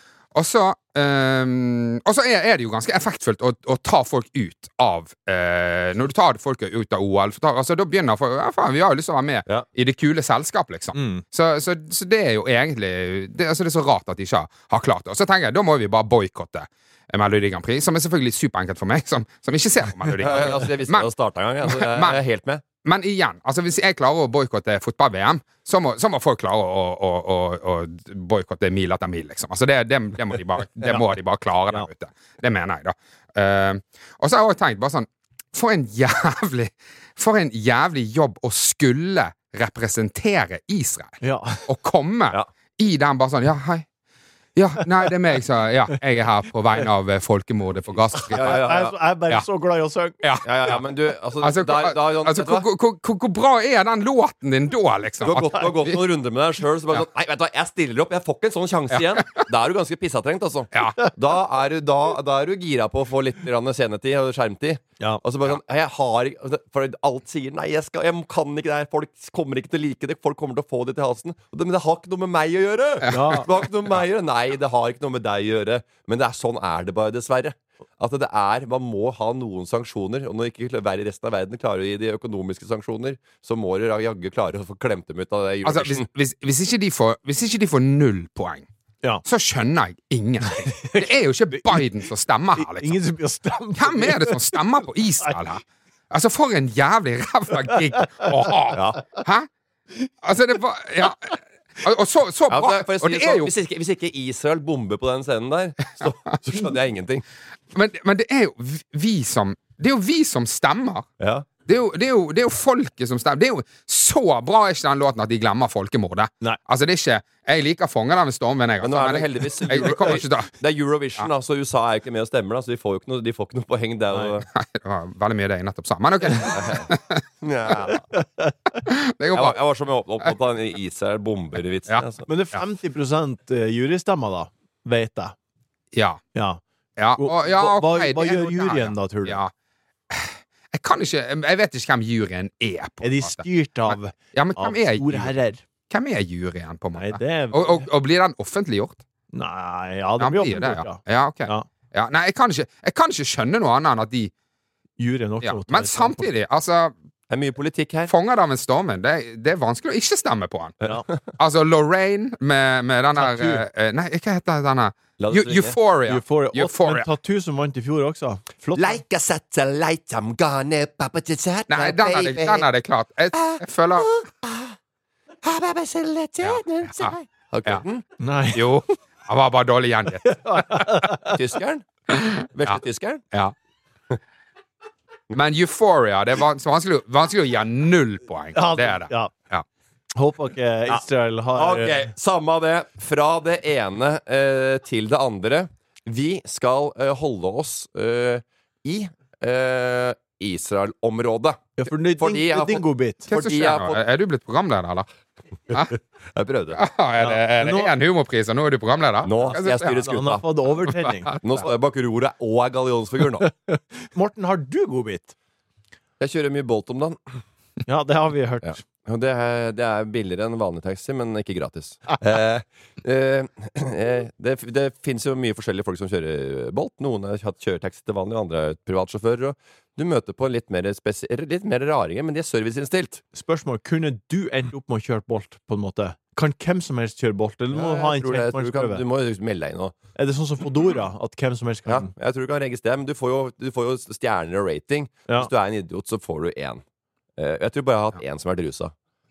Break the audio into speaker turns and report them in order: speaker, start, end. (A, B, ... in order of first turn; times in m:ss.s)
0:00.3-0:21.1 A
0:10.9-0:11.2 B
0:20.2-0:22.6 C
0:21.6-0:22.2 A
0:22.8-0:43.9 A
0:41.2-0:41.7 B
0:44.6-0:48.6 A
0:48.3-0:49.0 C
0:48.3-0:50.2 B
0:50.2-0:50.8 A
0:50.4-0:52.7 C
0:51.4-0:56.0 A
0:55.2-1:26.1 C
0:58.9-0:59.4 A
1:13.1-1:13.5 B
1:25.6-1:28.7 A
1:29.2-1:33.0 A
1:30.5-1:31.8 B
1:32.6-1:34.6 B
1:33.7-1:39.5 A
1:38.8-1:39.0 C
1:40.2-1:43.5 A
1:42.5-1:47.2 C
1:47.7-1:51.1 A
1:51.2-1:51.5 C
1:51.7-2:00.5 A
1:58.8-2:04.5 C
2:04.5-2:07.2 A
2:06.5-2:06.9 C
2:07.4-2:08.0 C
2:08.1-2:08.5 B
2:08.9-2:09.6 A
2:09.3-2:12.3 C
2:11.9-2:12.6 A
2:12.3-2:15.4 B
2:15.9-2:16.2 A
2:16.3-2:16.6 B
2:17.0-2:19.5 A
2:17.2-2:19.4 B
2:20.1-2:25.3 A
2:23.0-2:25.6 B
2:25.9-2:29.0 A
2:27.0-2:27.9 B
2:29.3-2:31.7 B
2:30.2-2:34.3 A
2:35.0-2:36.3 B
2:35.4-2:36.9 A
2:37.3-2:38.1 C
2:38.1-2:40.8 A
2:40.8-2:41.2 C
2:41.4-2:47.1 A
2:43.2-2:43.6 B
2:45.2-2:45.8 C
2:46.1-2:49.0 B
2:48.8-2:52.7 C
2:51.7-2:54.2 A
2:53.3-2:54.7 C
2:55.4-2:58.0 C
2:56.4-2:57.8 A
2:58.2-2:58.7 B
2:58.5-3:00.9 A
3:00.2-3:01.4 B
3:01.3-3:01.8 C
3:02.1-3:02.8 A
3:02.5-3:03.2 C
3:05.3-3:09.6 A
3:08.5-3:09.3 B
3:10.2-3:12.1 B
3:11.6-3:24.0 C
3:21.8-3:23.3 B
3:23.3-3:25.1 A
3:26.4-3:26.8 C
3:26.7-3:30.1 A
3:27.2-3:27.9 B
3:29.2-3:30.4 C
3:30.0-3:31.7 B
3:30.7-3:31.7 A
3:31.4-3:33.5 C
3:33.4-3:35.4 B
3:36.2-3:37.4 C
3:37.9-3:38.8 B
3:38.6-3:53.2 C
3:53.4-3:59.0 B
3:57.7-3:59.9 C
4:00.2-4:02.1 B
4:01.9-4:06.8 C
4:07.4-4:08.9 C